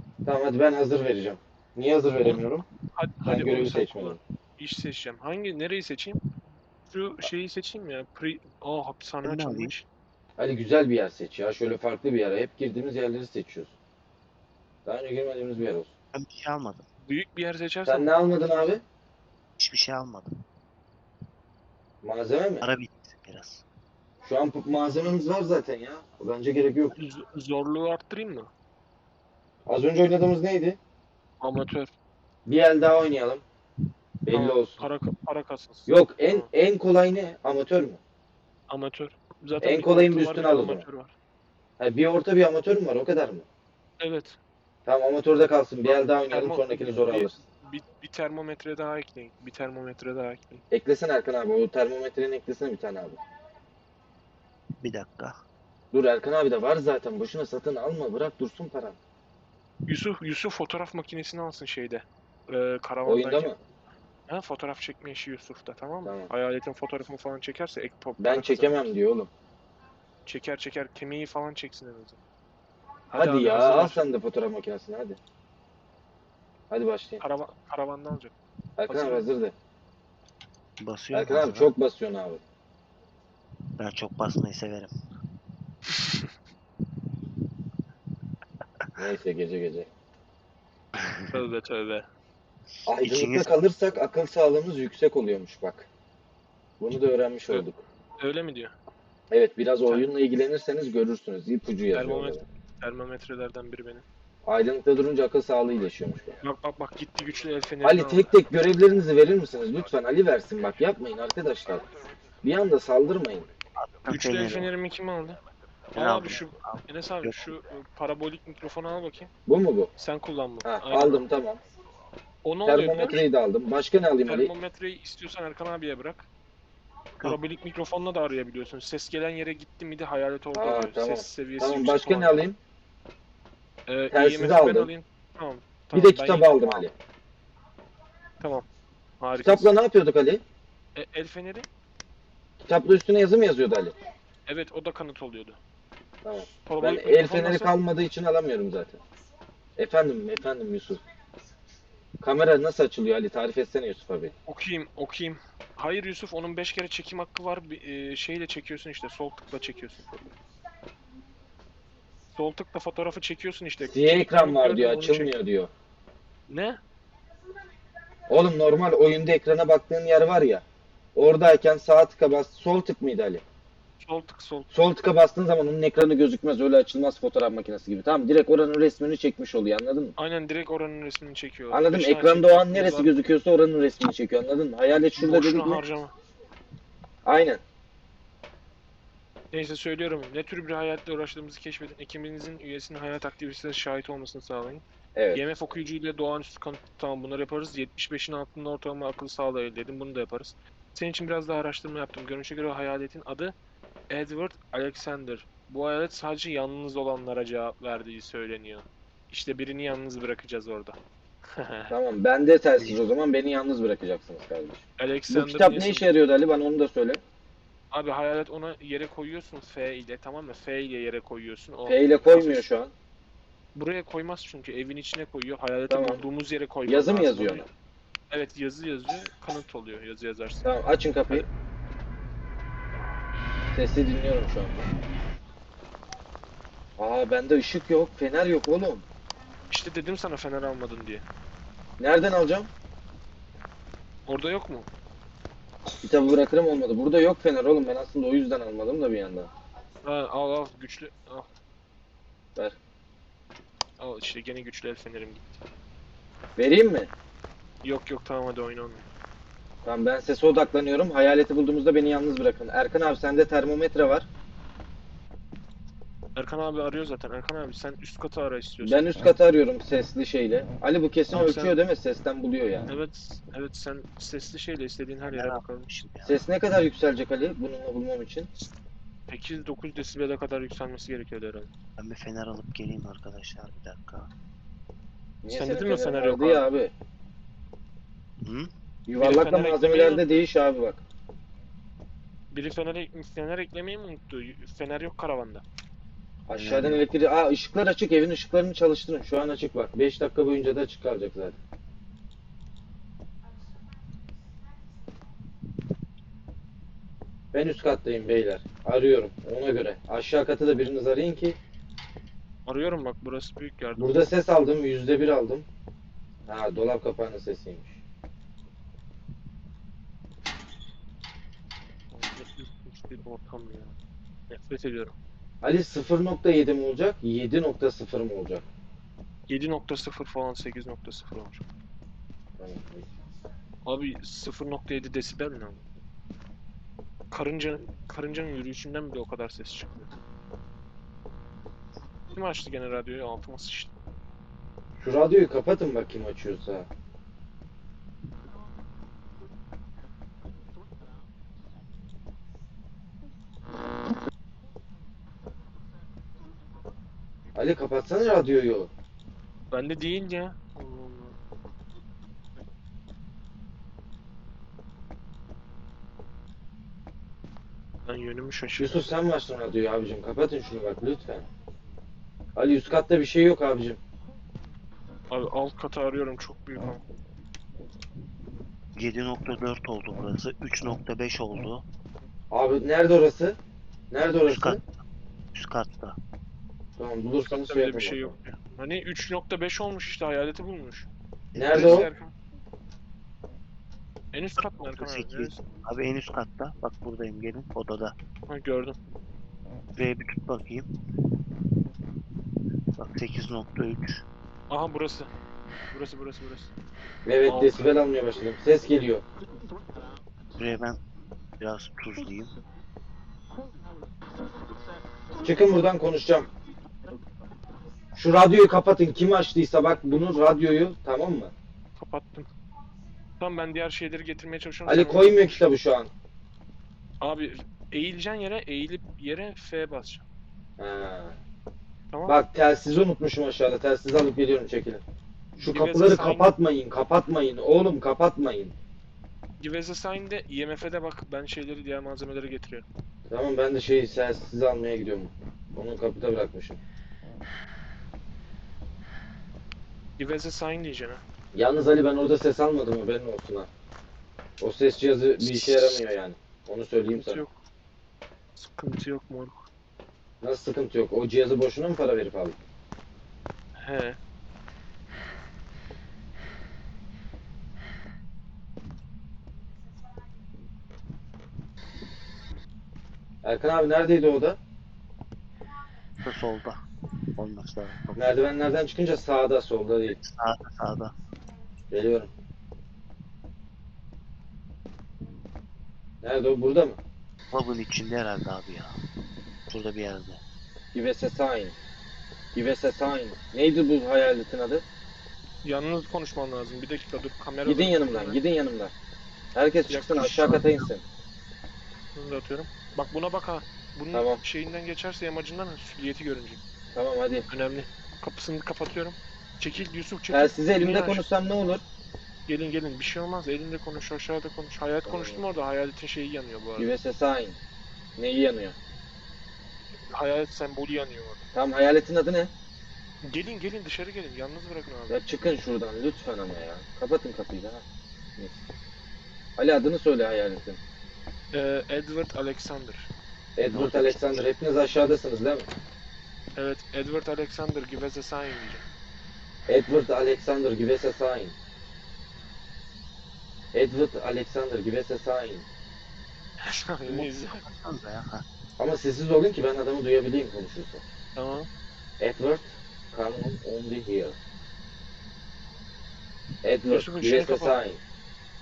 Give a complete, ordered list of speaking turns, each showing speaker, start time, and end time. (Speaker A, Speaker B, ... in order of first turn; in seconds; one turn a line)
Speaker A: 0.2-2.6
Speaker B: 2.2-6.2
Speaker A: 3.2-4.2
Speaker B: 6.9-9.8
Speaker C: 9.2-9.8
Speaker A: 10.4-13.7
Speaker A: 14.8-15.9
Speaker C: 16.1-16.9
Speaker B: 17.0-18.5
Speaker A: 17.9-18.8
Speaker C: 19.6-20.4
Speaker A: 22.0-22.6
Speaker C: 22.6-23.6
Speaker A: 24.2-26.9
Speaker B: 26.9-28.5
Speaker A: 29.6-30.8
Speaker B: 31.4-31.9
Speaker A: 32.5-33.4
Speaker A: 34.2-34.9
Speaker B: 34.3-36.5
Speaker A: 35.9-38.0
Speaker B: 38.7-41.1
Speaker A: 39.6-40.8
Speaker A: 41.8-43.5
Speaker B: 44.0-44.4
Speaker A: 44.9-47.3
Speaker B: 45.9-50.6
Speaker A: 50.7-53.2
Speaker C: 54.8-55.4
Speaker A: 55.9-59.0
Speaker B: 59.9-63.5
Speaker A: 63.0-63.6
Speaker B: 64.3-68.9
Speaker A: 66.0-66.3
Speaker A: 68.2-69.3
Speaker B: 70.2-72.2
Speaker B: 73.1-74.0
Speaker A: 73.1-75.2
Speaker A: 76.7-77.2
Speaker B: 77.2-78.3
Speaker A: 78.8-79.5
Speaker B: 78.9-79.3
Speaker C: 80.8-81.7
Speaker A: 81.1-82.4
Speaker C: 83.8-84.9
Speaker A: 89.0-89.9
Speaker B: 91.3-92.0
Speaker A: 92.8-95.9
Speaker C: 93.0-93.5
Speaker A: 96.8-97.8
Speaker B: 98.2-98.7
Speaker A: 99.3-102.4
Speaker B: 101.9-104.0
Speaker A: 104.5-106.4
Speaker B: 106.4-108.3
Speaker A: 107.8-113.5
Speaker C: 113.7-114.7
Speaker B: 114.0-115.4
Speaker C: 115.9-117.6
Speaker B: 115.9-119.3
Speaker A: 119.5-119.9
Speaker B: 120.0-121.2
Speaker A: 120.6-121.6
Speaker B: 122.4-123.2
Speaker A: 122.6-124.5
Speaker B: 124.2-126.3
Speaker B: 127.2-132.5
Speaker A: 130.5-132.6
Speaker B: 133.9-136.8
Speaker A: 134.1-134.9
Speaker A: 135.9-136.9
Speaker B: 138.4-138.7
Speaker B: 139.2-139.7
Speaker A: 139.4-140.4
Speaker B: 140.9-141.7
Speaker A: 142.6-143.9
Speaker B: 144.4-145.6
Speaker A: 146.2-149.0
Speaker B: 146.7-147.7
Speaker A: 149.8-151.0
Speaker A: 152.2-154.3
Speaker B: 154.5-160.1
Speaker B: 162.3-165.3
Speaker A: 163.8-165.7
Speaker B: 166.5-166.8
Speaker A: 168.3-170.6
Speaker A: 171.1-173.4
Speaker B: 174.0-174.7
Speaker A: 174.7-180.1
Speaker B: 180.2-183.1
Speaker A: 181.7-185.8
Speaker B: 185.2-186.1
Speaker A: 187.2-187.6
Speaker B: 189.5-203.5
Speaker A: 195.1-195.4
Speaker B: 204.1-211.9
Speaker A: 211.9-217.2
Speaker B: 215.0-216.1
Speaker B: 217.9-222.7
Speaker A: 221.8-222.9
Speaker B: 223.7-227.7
Speaker A: 225.9-226.2
Speaker A: 226.8-227.7
Speaker B: 228.3-230.7
Speaker A: 230.6-231.5
Speaker A: 233.7-234.9
Speaker A: 237.0-239.0
Speaker B: 239.7-241.2
Speaker A: 242.0-242.7
Speaker B: 244.3-244.9
Speaker A: 246.0-249.5
Speaker B: 250.0-251.5
Speaker B: 254.0-255.6
Speaker A: 256.6-257.1
Speaker B: 257.8-259.1
Speaker A: 259.8-264.3
Speaker B: 266.4-269.1
Speaker A: 268.8-272.9
Speaker B: 271.3-271.7
Speaker B: 272.9-275.9
Speaker C: 275.2-276.4
Speaker A: 276.2-278.5
Speaker B: 279.3-281.7
Speaker C: 282.0-284.3
Speaker A: 285.4-286.9
Speaker B: 285.5-286.6
Speaker C: 288.4-288.7
Speaker A: 289.1-291.0
Speaker B: 289.2-290.3
Speaker B: 292.5-295.6
Speaker A: 296.5-301.6
Speaker C: 296.5-297.0
Speaker A: 307.5-311.6
Speaker B: 312.6-314.3
Speaker A: 314.0-315.6
Speaker A: 316.5-318.0
Speaker B: 322.1-323.9
Speaker B: 324.5-325.1
Speaker A: 325.6-328.6
Speaker B: 329.5-331.6
Speaker A: 332.6-333.1
Speaker B: 333.8-335.8
Speaker B: 337.3-340.1
Speaker B: 342.3-343.9
Speaker A: 345.0-346.9
Speaker A: 357.5-358.9
Speaker B: 359.7-361.3
Speaker B: 368.1-369.2
Speaker A: 368.8-371.5
Speaker A: 372.5-374.0
Speaker B: 375.3-377.0
Speaker C: 378.9-381.8
Speaker A: 382.5-383.6
Speaker A: 384.1-384.8
Speaker C: 384.4-384.8
Speaker C: 385.5-386.1
Speaker A: 387.0-388.4
Speaker B: 387.4-391.1
Speaker C: 391.5-392.1
Speaker A: 391.6-392.1
Speaker B: 391.7-392.3
Speaker B: 394.3-395.6
Speaker C: 394.8-398.1
Speaker B: 398.5-399.0
Speaker C: 399.9-400.9
Speaker C: 402.9-404.2
Speaker B: 404.7-405.3
Speaker B: 405.9-406.7
Speaker A: 407.2-409.2
Speaker B: 407.4-408.0
Speaker C: 410.6-411.0
Speaker C: 411.6-412.5
Speaker A: 415.4-416.5
Speaker A: 418.1-421.5
Speaker B: 422.0-422.5
Speaker B: 423.4-425.6
Speaker A: 424.9-426.1
Speaker B: 427.2-430.2
Speaker A: 430.8-431.4
Speaker B: 432.1-432.4
Speaker A: 432.2-435.0
Speaker A: 435.6-438.7
Speaker B: 435.6-436.5
Speaker B: 439.6-442.8
Speaker A: 443.3-446.8
Speaker B: 450.2-451.2
Speaker A: 451.5-453.7
Speaker A: 454.6-457.4
Speaker B: 455.5-455.9
Speaker B: 457.1-457.6
Speaker B: 458.6-459.7
Speaker A: 460.4-462.6
Speaker B: 463.8-464.2
Speaker A: 473.4-474.6
Speaker C: 476.2-476.8
Speaker C: 477.4-478.4
Speaker A: 478.1-480.2
Speaker C: 480.1-481.1
Speaker A: 481.9-482.3
Speaker A: 486.2-487.0
Speaker C: 487.5-489.0
Speaker C: 489.7-490.4
Speaker A: 490.9-491.7
Speaker A: 492.5-494.8
Speaker B: 495.6-498.4
Speaker A: 497.6-498.9
Speaker A: 499.5-501.0
Speaker B: 499.9-500.4
Speaker C: 500.0-500.8
Speaker B: 502.1-506.6
Speaker A: 504.1-504.4
Speaker A: 506.9-507.5
Speaker B: 507.5-511.2
Speaker A: 510.3-511.8
Speaker B: 512.5-516.9
Speaker A: 515.0-515.4
Speaker A: 516.8-517.6
Speaker A: 518.2-518.8
Speaker B: 520.0-521.4
Speaker A: 521.5-522.5
Speaker B: 523.2-525.2
Speaker A: 525.1-527.8
Speaker A: 528.4-528.6
Speaker A: 529.6-530.8
Speaker B: 531.5-533.1
Speaker A: 533.5-535.7
Speaker C: 533.6-534.5
Speaker B: 536.5-538.8
Speaker A: 539.7-541.5
Speaker A: 543.7-545.6
Speaker B: 546.6-547.6
Speaker C: 547.1-548.4
Speaker A: 548.8-551.0
Speaker B: 551.3-551.7
Speaker A: 552.2-554.4
Speaker A: 556.6-558.0
Speaker B: 556.9-557.8